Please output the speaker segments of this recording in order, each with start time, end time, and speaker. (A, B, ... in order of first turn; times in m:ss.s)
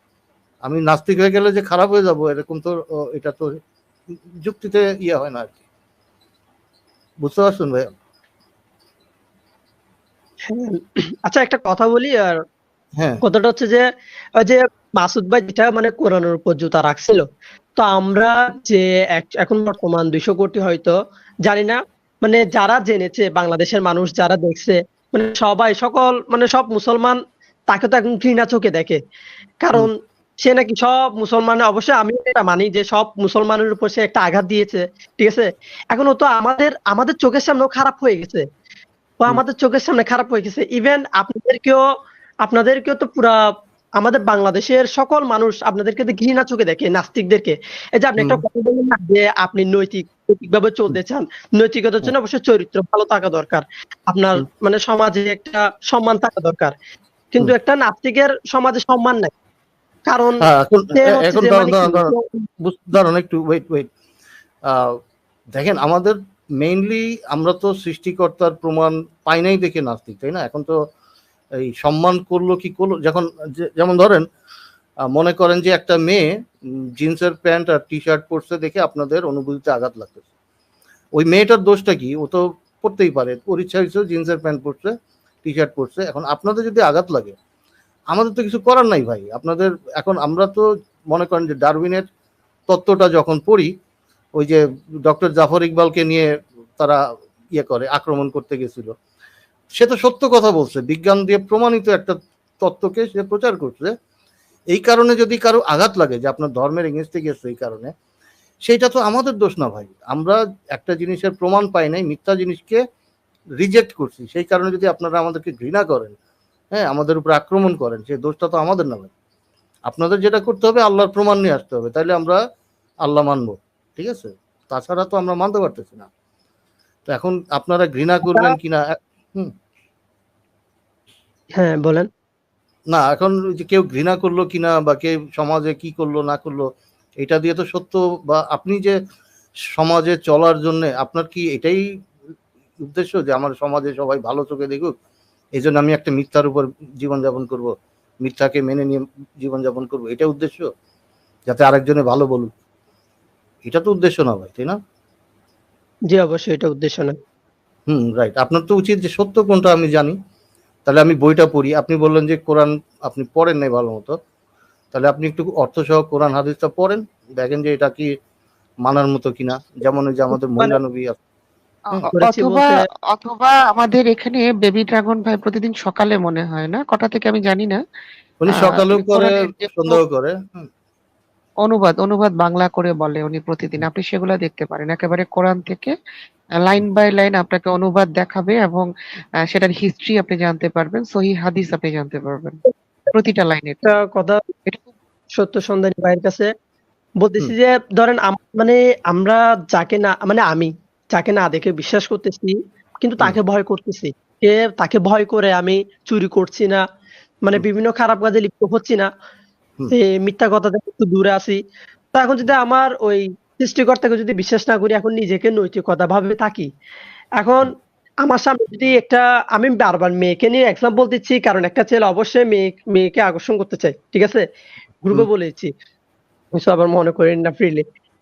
0:00.6-0:03.6 A
0:04.4-0:05.6 A
0:07.2-0:07.9 A
0:10.5-0:12.4 B
0:13.0-0:13.2 A
0:13.2-0:13.8 B
0:14.4-0:29.0 B
0:29.6-0:38.4 B
0:39.2-0:41.8 B
0:42.4-0:43.4 B
0:44.0-0:56.7 B
0:57.3-0:59.3 B
1:00.1-1:02.5 B
1:00.4-1:03.9 A
1:04.6-1:05.0 A
1:05.5-1:10.8 A
1:11.6-1:14.2 A
1:15.1-1:16.3 A
1:17.0-1:20.2 A
1:21.1-1:24.9 A
1:25.4-1:27.4 A
1:28.1-1:32.1 A
1:32.7-1:33.7 A
1:34.4-1:37.0 A
1:37.5-1:38.9 A
1:39.8-1:43.9 A
1:44.7-1:47.9 A
1:48.6-1:52.8 A
1:53.6-1:56.1 A
1:56.7-1:59.1 A
1:59.9-2:02.4 A
2:03.0-2:06.1 A
2:07.1-2:09.5 A
2:08.3-2:08.6 B
2:11.6-2:12.1 B
2:12.9-2:19.0 A
2:19.7-2:21.8 A
2:22.8-2:24.9 A
2:25.6-2:30.7 A
2:31.5-2:32.5 A
2:33.6-2:34.8 A
2:36.1-2:37.2 B
2:37.9-2:40.2 A
2:40.8-2:44.2 A
2:44.9-2:48.1 A
2:48.8-2:51.2 A
2:51.9-2:57.8 C
2:52.1-2:52.8 B
2:58.4-3:00.7 A
2:58.5-3:00.0 C
3:01.6-3:05.9 C
3:06.6-3:08.9 C
3:09.5-3:12.6 C
3:13.1-3:13.9 C
3:13.8-3:14.4 B
3:15.3-3:16.5 B
3:17.2-3:26.8 B
3:27.4-3:29.1 B
3:29.9-3:31.6 B
3:32.1-3:36.7 B
3:37.4-3:44.4 B
3:45.0-3:45.7 B
3:46.5-3:47.8 B